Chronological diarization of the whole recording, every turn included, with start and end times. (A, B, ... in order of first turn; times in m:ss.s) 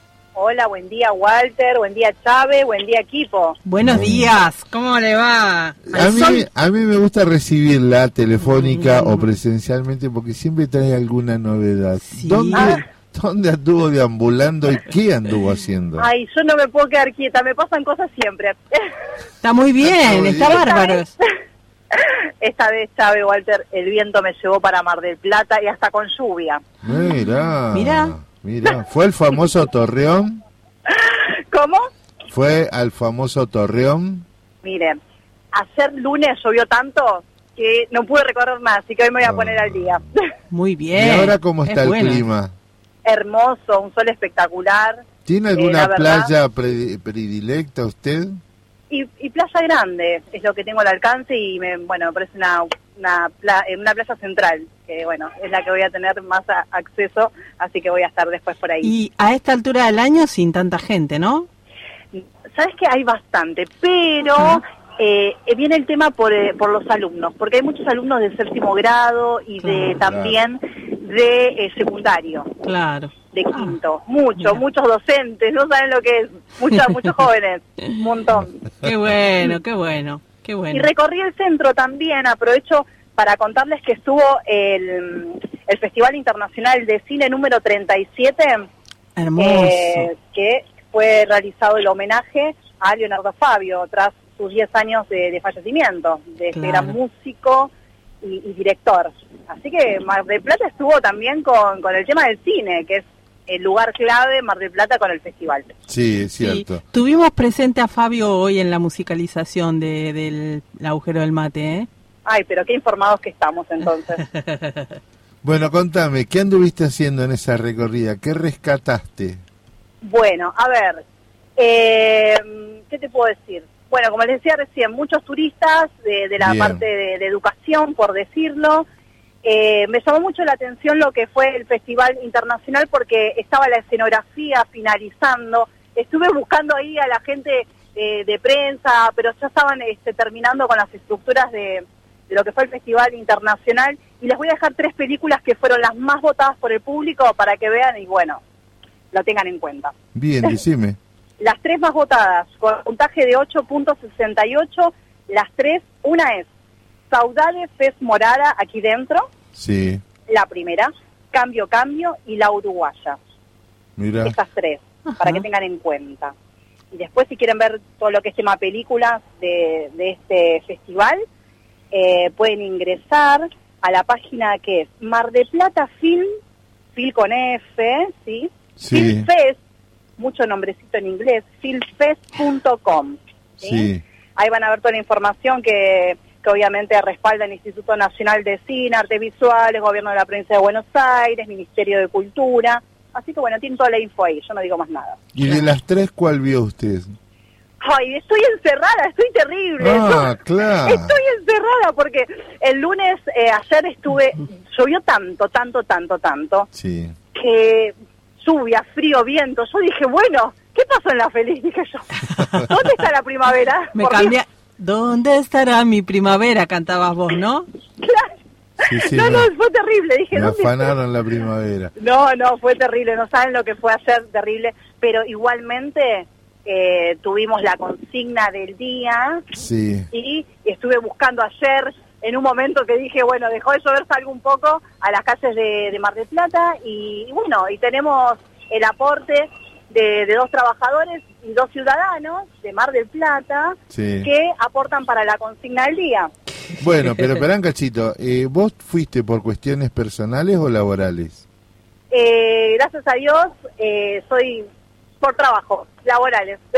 0:00.4-0:03.6 A
0:03.6-0:06.5 B
0:03.8-0:04.3 C
0:05.9-0:16.1 C
0:08.4-0:09.2 B
0:12.0-0:12.8 B
0:12.5-0:12.8 A
0:16.0-0:18.9 A
0:19.4-0:21.1 B
0:19.8-0:20.6 C
0:20.5-0:21.3 A
0:21.9-0:26.6 A
0:26.8-0:30.4 C
0:27.7-0:28.1 B
0:30.9-0:31.8 A
0:32.3-0:34.2 C
0:34.6-0:35.0 A
0:35.5-0:40.2 A
0:39.2-0:40.0 C
0:40.5-0:42.2 B
0:40.9-0:42.5 C
0:43.0-0:45.0 A
0:45.2-0:48.4 C
0:45.6-0:46.3 A
0:48.9-0:58.9 A
0:58.8-1:01.5 B
1:02.1-1:12.5 A
1:09.6-1:10.0 B
1:10.0-1:10.4 C
1:12.6-1:13.8 B
1:13.3-1:18.5 A
1:18.8-1:20.9 B
1:20.7-1:28.7 A
1:29.2-1:30.1 B
1:29.4-1:37.7 A
1:36.6-1:37.0 B
1:38.2-1:45.7 A
1:45.9-1:46.8 C
1:46.4-1:51.9 B
1:52.2-1:54.2 A
1:54.4-1:54.8 B
1:55.4-1:59.4 C
2:00.0-2:01.0 A
2:01.6-2:08.9 A
2:06.4-2:06.8 C
2:09.4-2:28.4 A
2:29.1-2:29.9 A
2:30.2-2:31.0 C
2:31.4-2:36.5 A
2:37.1-2:39.3 A
2:39.6-2:40.0 C
2:40.3-2:43.2 A
2:44.0-2:44.4 C
2:44.2-2:46.3 A
2:46.9-2:51.2 A
2:51.9-2:56.3 A
2:57.0-2:59.6 A
2:58.8-2:59.3 C
3:00.2-3:15.2 A
3:03.6-3:04.0 C
3:15.3-3:17.1 C
3:17.8-3:20.3 A
3:19.8-3:21.1 C
3:20.8-3:26.7 A
3:26.7-3:27.1 C
3:27.4-3:34.4 A
3:32.3-3:32.6 B
3:34.0-3:37.7 B
3:38.0-3:38.3 A
3:38.8-3:39.5 C
3:39.0-3:40.9 A
3:40.3-3:41.9 C
3:42.0-3:49.4 A
3:49.5-3:50.1 C
3:50.1-4:06.3 A
4:03.9-4:04.3 C
4:06.8-4:11.4 C
4:12.1-4:14.6 A
4:15.2-4:16.7 A